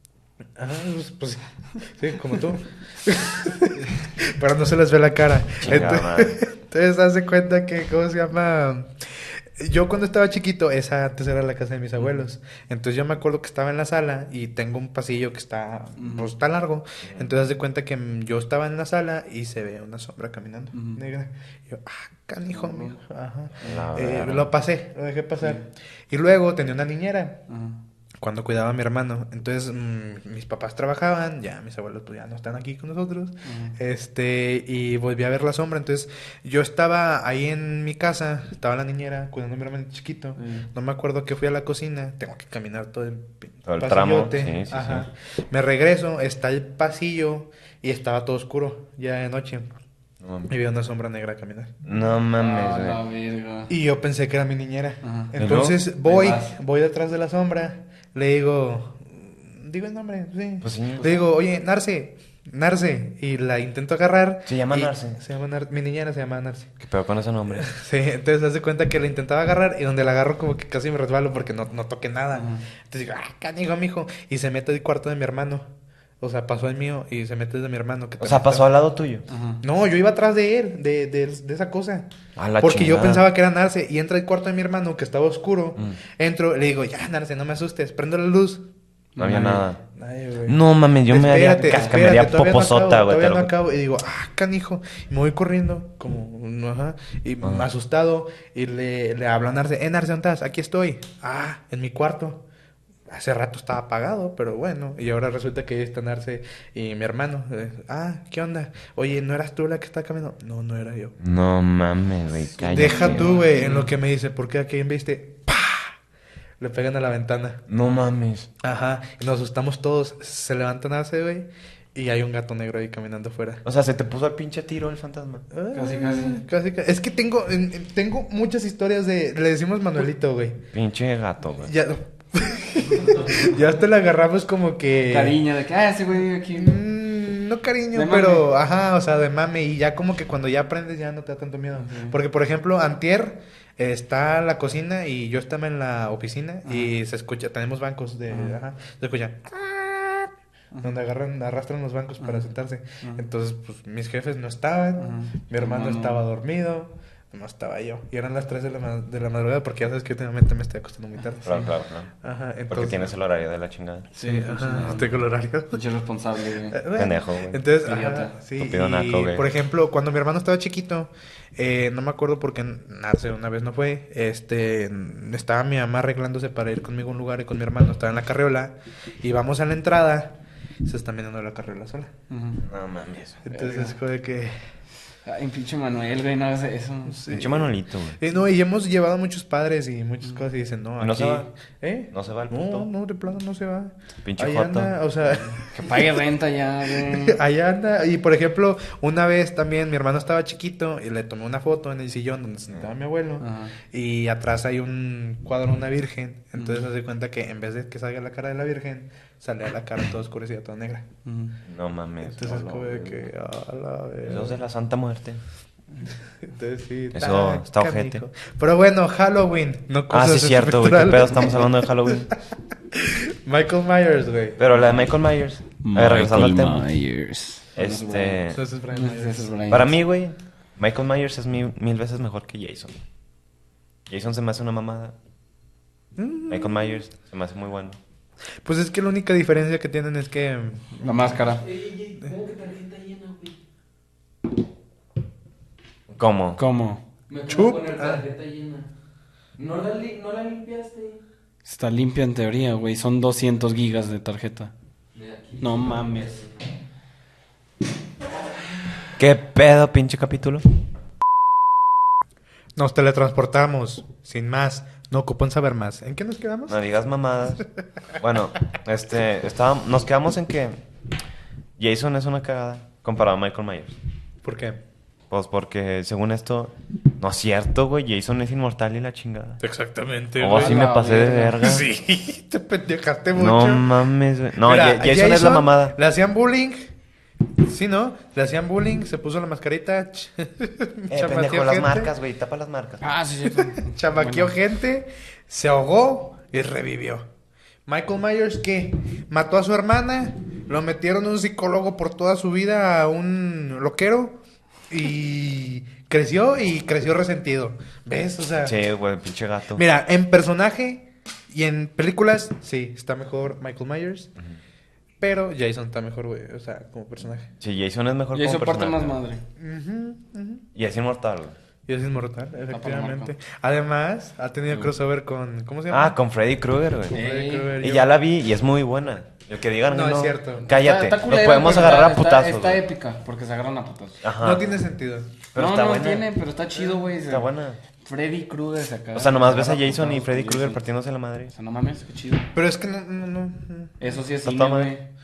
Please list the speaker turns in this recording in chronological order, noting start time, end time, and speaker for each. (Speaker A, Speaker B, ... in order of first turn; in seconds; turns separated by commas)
Speaker A: 0.6-27.4, Speaker B: 5.6-6.4, Speaker C: 16.0-16.3, Speaker B: 17.0-17.3, Speaker C: 20.7-21.0, Speaker C: 22.5-22.9, Speaker B: 23.6-24.5, Speaker C: 25.4-25.6, Speaker C: 27.5-27.8, Speaker A: 28.2-49.7, Speaker C: 33.4-33.7, Speaker C: 40.4-40.7, Speaker B: 43.6-45.1, Speaker B: 50.2-50.5, Speaker A: 50.5-51.7, Speaker B: 51.8-53.0, Speaker C: 52.4-53.7, Speaker A: 53.7-66.7, Speaker C: 55.0-55.3, Speaker B: 55.4-55.8, Speaker C: 56.0-56.5, Speaker B: 60.6-61.0, Speaker C: 61.0-61.2, Speaker B: 64.5-65.2, Speaker B: 66.8-67.7, Speaker A: 67.5-75.7, Speaker C: 72.3-72.6, Speaker A: 76.2-78.7, Speaker B: 78.2-79.2, Speaker C: 79.3-79.6, Speaker A: 79.6-82.1, Speaker B: 82.3-83.2, Speaker A: 82.6-88.6, Speaker C: 89.2-89.6, Speaker B: 89.2-89.8, Speaker A: 89.9-102.4, Speaker B: 90.5-93.5, Speaker A: 103.1-111.1, Speaker B: 111.2-113.4, Speaker C: 112.6-113.9, Speaker A: 112.7-116.0, Speaker A: 116.6-117.6, Speaker B: 117.7-118.5, Speaker A: 118.6-123.6, Speaker B: 123.6-125.5, Speaker A: 125.5-130.6, Speaker C: 125.7-126.4, Speaker B: 130.7-131.7, Speaker A: 131.6-135.4, Speaker C: 135.1-136.8, Speaker A: 136.5-161.7, Speaker C: 137.9-138.5, Speaker C: 141.8-142.1, Speaker C: 146.7-146.9, Speaker C: 148.3-148.6, Speaker C: 152.2-152.4, Speaker C: 155.0-156.2, Speaker B: 161.4-162.1, Speaker A: 162.2-163.1, Speaker B: 162.7-164.1, Speaker C: 164.2-165.1, Speaker A: 164.2-165.8, Speaker B: 164.8-165.1, Speaker C: 165.7-166.8, Speaker A: 166.7-182.1, Speaker B: 166.9-167.6, Speaker C: 167.8-168.4, Speaker B: 168.6-169.4, Speaker C: 182.3-182.6, Speaker B: 182.6-183.4, Speaker A: 183.4-184.5, Speaker C: 183.5-183.9, Speaker C: 185.2-187.2, Speaker A: 187.1-196.0, Speaker B: 187.3-188.2, Speaker B: 191.0-191.5, Speaker B: 192.1-192.9, Speaker B: 194.2-194.9, Speaker C: 195.7-197.4, Speaker A: 197.0-211.1, Speaker C: 203.4-203.7, Speaker C: 206.6-206.8, Speaker C: 211.2-211.5, Speaker B: 211.7-212.4, Speaker A: 212.2-214.6, Speaker C: 212.4-213.3, Speaker B: 214.2-215.4, Speaker A: 216.4-222.3, Speaker B: 217.1-218.3, Speaker B: 220.1-222.3, Speaker A: 222.9-224.6, Speaker B: 224.6-226.8, Speaker C: 225.8-229.9, Speaker B: 227.8-228.6, Speaker A: 228.5-229.5, Speaker B: 229.7-232.9, Speaker B: 234.1-235.1, Speaker A: 236.2-236.8, Speaker B: 236.5-238.0, Speaker A: 238.6-241.4, Speaker C: 241.0-241.6, Speaker D: 241.6-243.6, Speaker B: 246.1-246.6, Speaker C: 246.6-247.0, Speaker D: 247.3-248.9, Speaker A: 247.5-248.2, Speaker D: 249.6-251.2, Speaker C: 251.6-254.7, Speaker D: 255.1-256.6, Speaker C: 255.6-256.4, Speaker B: 259.2-260.6, Speaker A: 262.8-266.8, Speaker B: 266.7-267.6, Speaker B: 268.2-270.8, Speaker B: 271.8-274.0, Speaker A: 274.4-274.8, Speaker B: 275.3-279.6, Speaker A: 279.6-280.8, Speaker B: 280.4-281.9, Speaker C: 280.5-281.6, Speaker A: 281.6-283.9, Speaker B: 283.3-285.9, Speaker A: 284.6-286.9, Speaker A: 287.6-292.1, Speaker B: 291.1-293.1, Speaker C: 293.0-294.5, Speaker A: 293.4-297.2, Speaker A: 297.9-304.4, Speaker A: 304.9-308.7, Speaker B: 308.6-309.8, Speaker A: 309.7-314.3, Speaker A: 315.2-317.5, Speaker B: 317.6-319.2, Speaker C: 318.3-319.4, Speaker A: 319.6-320.6, Speaker B: 320.7-321.6, Speaker A: 321.9-326.1, Speaker C: 322.7-323.3, Speaker B: 325.9-327.2, Speaker A: 327.1-328.1, Speaker C: 327.1-327.8, Speaker B: 327.8-332.8, Speaker A: 329.9-330.7, Speaker C: 330.6-334.2, Speaker B: 334.2-334.6, Speaker A: 334.4-335.3, Speaker B: 335.5-336.3, Speaker C: 335.6-337.5, Speaker B: 337.2-337.8, Speaker C: 338.0-340.8, Speaker B: 339.1-341.5, Speaker C: 341.5-342.4, Speaker A: 342.5-344.0, Speaker C: 344.0-345.0, Speaker B: 344.4-344.9